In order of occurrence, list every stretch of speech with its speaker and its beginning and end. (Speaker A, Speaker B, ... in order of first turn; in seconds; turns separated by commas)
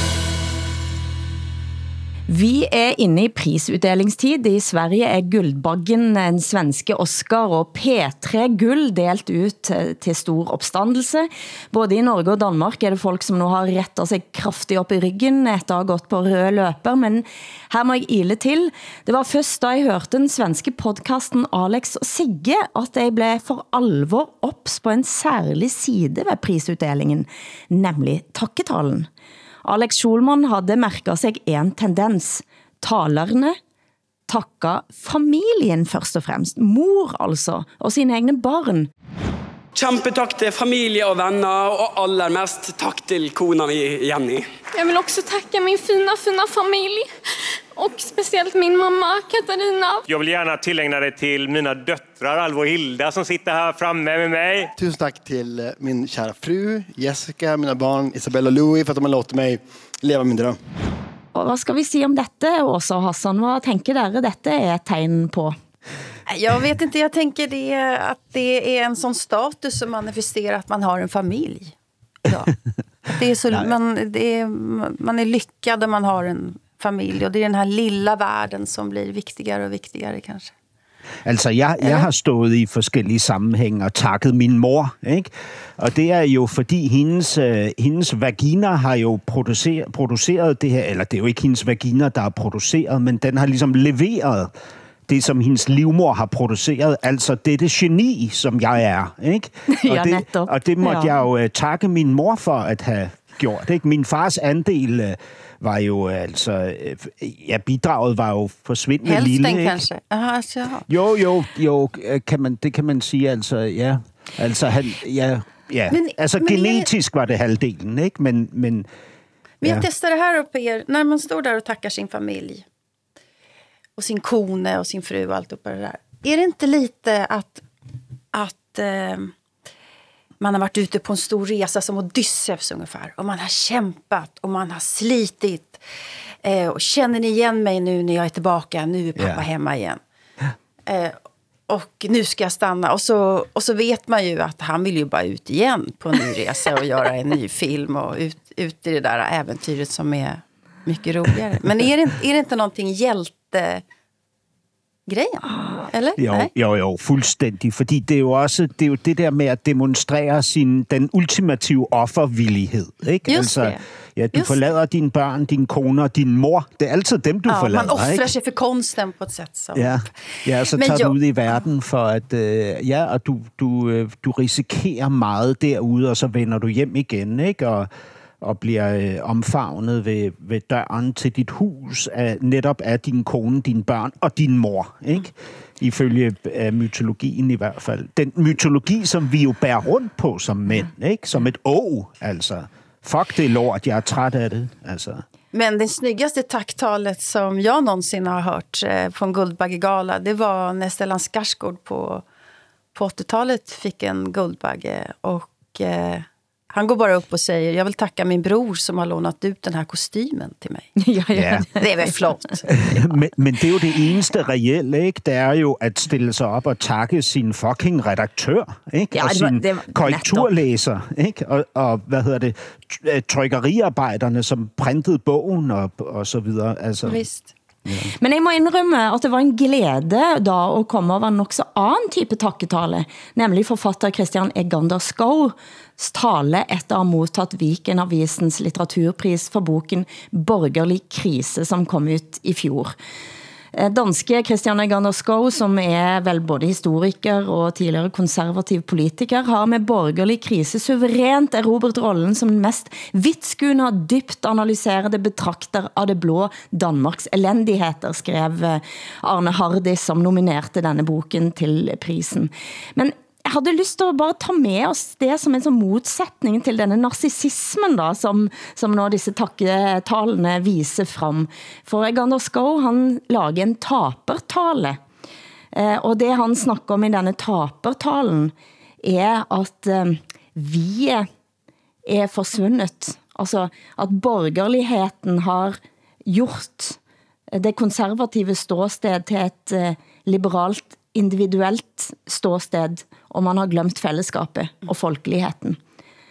Speaker A: 2.3-29.1, Speaker A: 29.6-33.6, Speaker A: 34.3-38.9, Speaker B: 39.7-44.5, Speaker C: 44.7-47.1, Speaker C: 47.7-50.0, Speaker D: 50.1-54.7, Speaker E: 54.8-60.6, Speaker A: 61.3-65.5, Speaker F: 66.3-71.7, Speaker F: 72.2-72.5, Speaker F: 73.1-80.5, Speaker G: 81.2-94.5, Speaker F: 81.8-82.1, Speaker G: 95.1-109.8, Speaker A: 99.7-101.1, Speaker F: 109.0-110.8, Speaker G: 110.9-118.9, Speaker F: 115.9-116.9, Speaker F: 119.6-122.6, Speaker F: 124.0-127.6, Speaker F: 128.3-129.3, Speaker F: 130.4-135.8, Speaker F: 136.4-140.0, Speaker G: 139.2-139.4, Speaker F: 140.9-141.2, Speaker F: 141.7-153.8, Speaker F: 155.1-156.5, Speaker G: 156.2-168.3, Speaker F: 163.3-163.8, Speaker F: 164.3-164.6, Speaker F: 167.5-171.1, Speaker G: 169.7-177.9, Speaker G: 178.4-195.2, Speaker F: 195.5-202.2, Speaker F: 202.9-210.9, Speaker A: 211.0-211.8, Speaker G: 211.3-211.7, Speaker F: 211.8-212.7, Speaker G: 212.7-227.2, Speaker A: 219.1-220.5, Speaker F: 227.0-227.5, Speaker G: 227.8-228.1, Speaker A: 228.1-242.9, Speaker A: 243.7-275.0, Speaker A: 275.7-281.3, Speaker A: 282.1-287.0, Speaker A: 287.5-295.8